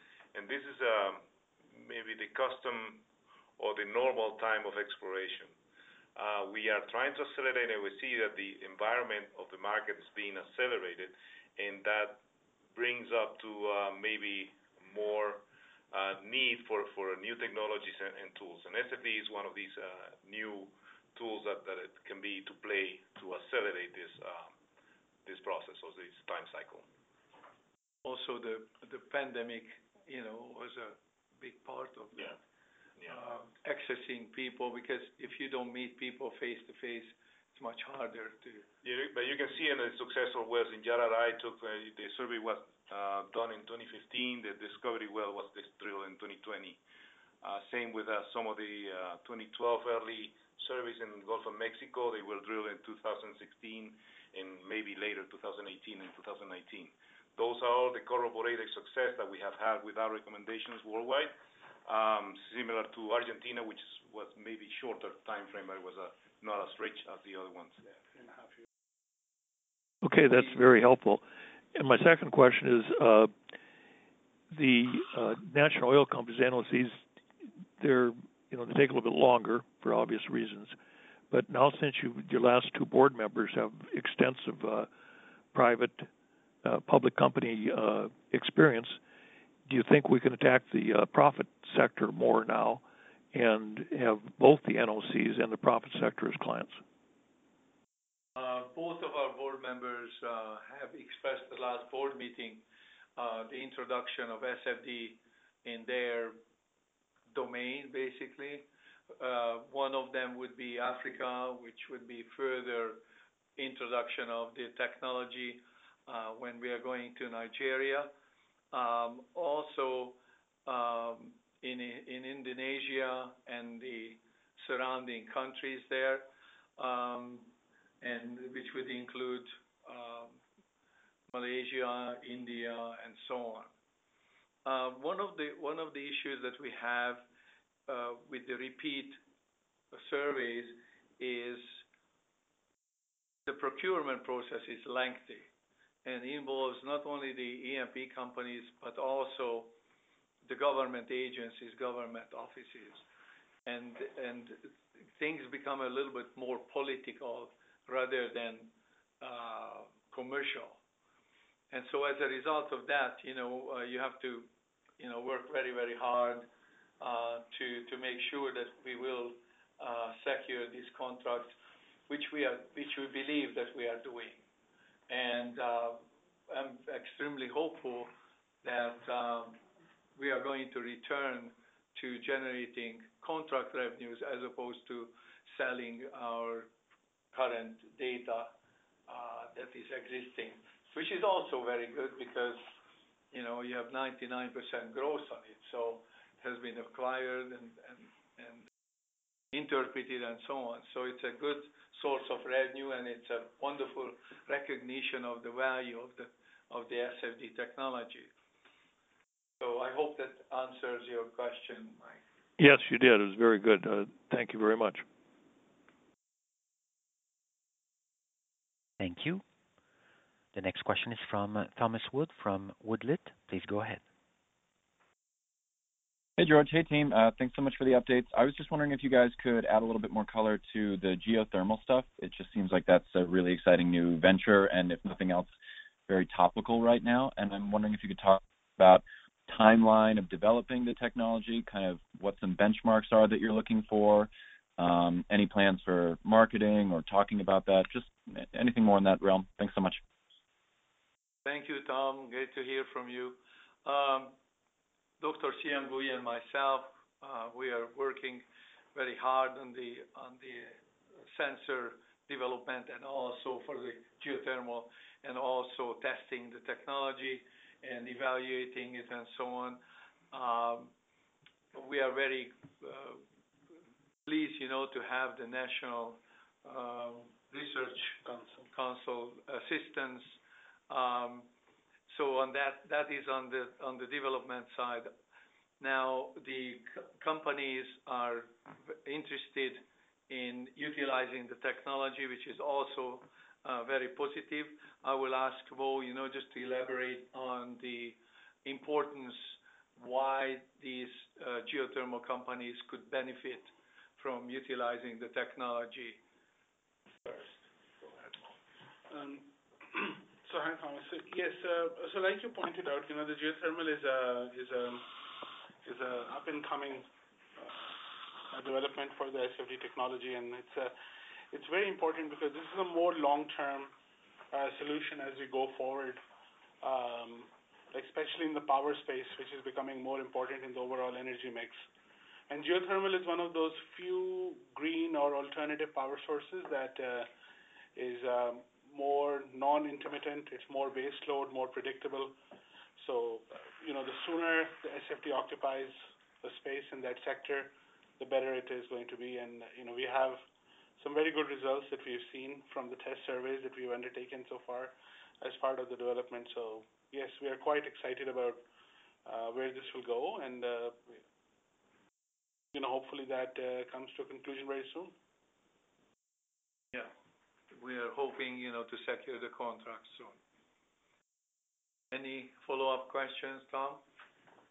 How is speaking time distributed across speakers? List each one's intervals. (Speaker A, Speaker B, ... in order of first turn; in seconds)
Speaker A: 0.3-3.0, 3.6-5.5, 6.2-12.2, 12.7-24.5, 25.2-26.9, 38.8-46.8, 47.4-61.3, 61.9-67.8
Speaker B: 28.0-32.3, 33.1-38.6, 98.4-102.6, 103.2-106.4, 107.3-108.7, 109.2-113.0, 113.6-118.1, 118.7-127.5, 128.0-130.4, 131.3-133.7, 134.6-137.2, 137.9-139.2, 139.9-141.8, 143.5-145.5, 146.1-149.7, 150.4-153.0, 153.6-160.8, 161.7-164.5, 165.0-166.5, 167.0-171.6, 172.1-174.4, 175.1-179.6, 180.2-186.7, 187.3-188.5, 189.1-192.6, 193.3-198.7, 199.5-208.3, 209.6-212.2, 251.4-254.3, 255.2-260.8, 261.3-269.8, 270.3-270.9, 271.7-273.2, 274.3-280.4, 280.9-281.5, 282.1-285.1, 285.8-306.2, 367.7-370.4, 372.1-374.0
Speaker C: 67.9-68.7, 278.2-278.7, 309.1-315.1, 315.8-320.9, 321.5-323.9, 324.5-326.2, 326.8-331.8, 332.5-337.3, 338.0-342.4, 343.0-350.4, 351.0-358.6, 359.2-361.2, 362.7-365.1
Speaker D: 70.0-71.2, 71.8-73.3, 74.5-77.0, 77.8-80.8, 81.3-84.9, 85.5-86.1, 86.6-89.0, 89.7-96.8, 212.6-215.1
Speaker E: 219.0-219.4, 220.5-224.0
Speaker F: 226.4-235.5, 236.1-250.0